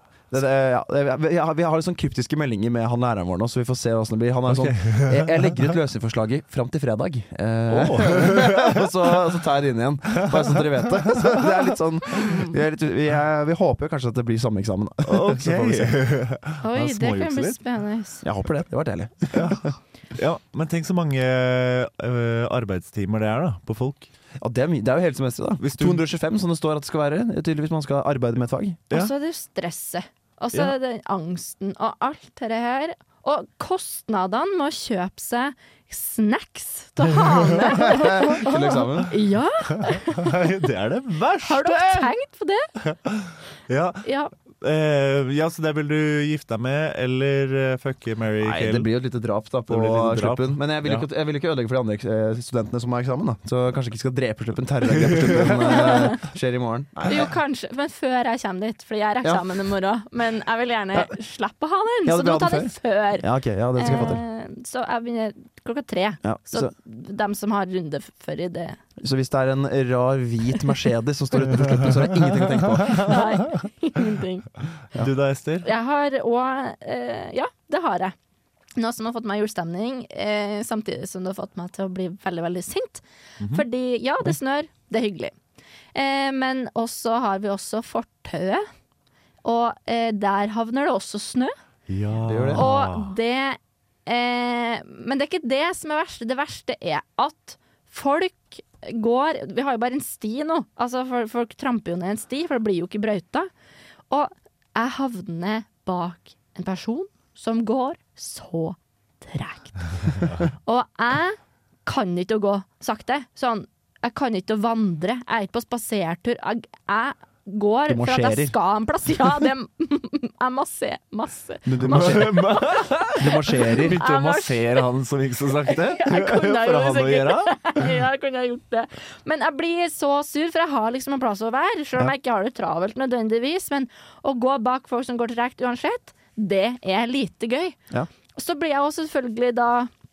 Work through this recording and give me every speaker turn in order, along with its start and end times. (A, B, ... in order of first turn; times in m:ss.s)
0:00.3-0:16.0 A
0:04.5-0:05.7 B
0:07.7-0:09.0 B
0:10.3-0:11.5 B
0:12.1-0:12.6 C
0:15.0-0:17.6 B
0:16.6-0:18.2 C
0:18.2-0:19.7 A
0:19.3-0:24.1 B
0:24.4-0:28.8 A
0:25.6-0:26.0 B
0:28.9-0:40.4 C
0:37.2-0:38.2 B
0:37.8-0:39.1 A
0:39.7-0:42.1 B
0:41.4-0:42.7 C
0:42.8-0:44.0 B
0:44.0-0:44.3 C
0:44.6-0:48.9 B
0:48.4-0:57.3 A
0:49.7-0:51.0 B
0:55.2-0:55.6 B
0:55.7-0:56.2 C
0:57.1-1:08.8 C
0:59.2-0:59.6 A
1:02.0-1:04.2 A
1:03.8-1:04.2 B
1:06.2-1:06.7 A
1:09.0-1:13.1 A
1:12.8-1:13.2 B
1:13.0-1:14.5 C
1:15.0-1:15.7 B
1:15.6-1:18.1 C
1:18.8-1:25.3 C
1:25.9-1:28.6 C
1:29.4-1:31.5 C
1:31.9-1:33.1 B
1:32.2-1:32.7 A
1:32.5-1:43.5 C
1:44.1-1:50.1 C
1:50.6-2:02.8 C
1:57.9-1:58.6 A
2:01.7-2:02.4 A
2:01.9-2:07.5 B
2:03.2-2:04.0 A
2:03.9-2:04.8 C
2:05.6-2:17.8 C
2:18.4-2:19.9 C